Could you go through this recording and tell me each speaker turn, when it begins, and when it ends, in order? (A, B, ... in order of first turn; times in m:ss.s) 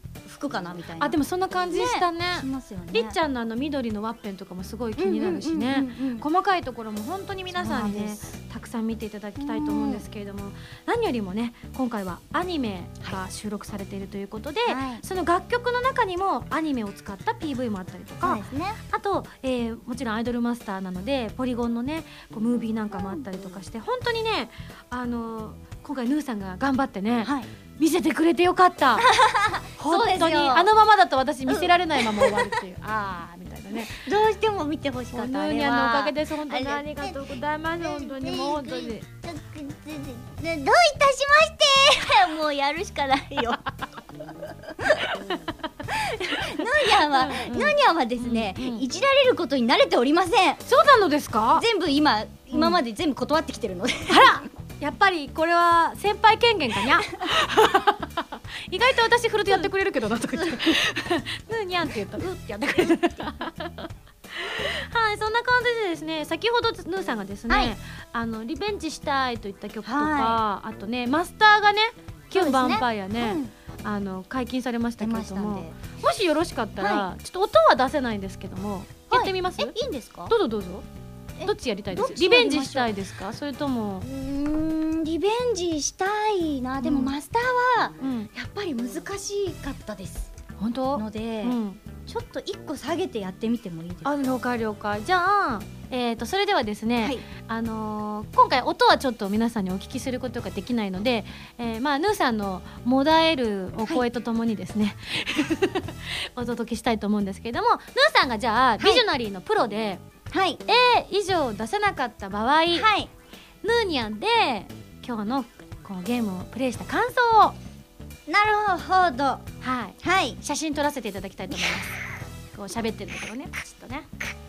0:00.2-0:01.2 A
0:01.0-0:29.1 B
0:01.7-0:03.2 A
0:05.0-0:06.3 A
0:07.5-0:08.2 A
0:09.4-0:10.0 A
0:14.7-0:15.0 A
0:18.2-0:18.8 A
0:22.9-0:23.2 A
0:27.2-0:27.5 A
0:29.0-0:30.7 A
0:29.8-0:34.1 B
0:31.5-0:32.5 A
0:33.8-0:37.2 A
0:35.1-0:39.1 B
0:37.8-0:43.6 A
0:44.3-0:45.1 A
0:45.0-0:45.5 B
0:45.9-0:50.6 A
0:46.6-0:48.8 B
0:50.7-0:51.6 B
0:51.5-0:54.5 A
0:54.1-1:19.8 B
1:00.3-1:00.8 A
1:07.5-1:07.8 A
1:09.8-1:10.4 A
1:12.3-1:13.5 A
1:15.0-1:15.8 A
1:16.8-1:17.1 A
1:19.1-1:20.3 A
1:20.3-1:20.8 B
1:21.4-1:22.9 A
1:21.4-1:24.1 B
1:24.0-1:30.3 A
1:26.8-1:27.2 B
1:28.0-1:28.3 B
1:30.6-1:31.8 B
1:31.0-1:34.4 A
1:34.0-1:50.0 B
1:48.8-1:49.0 A
1:50.3-1:50.6 A
1:50.7-1:52.9 B
1:52.7-1:53.1 A
1:53.6-1:57.6 B
1:58.3-1:59.5 A
1:59.6-2:01.9 B
2:00.0-2:00.4 A
2:02.5-2:04.1 B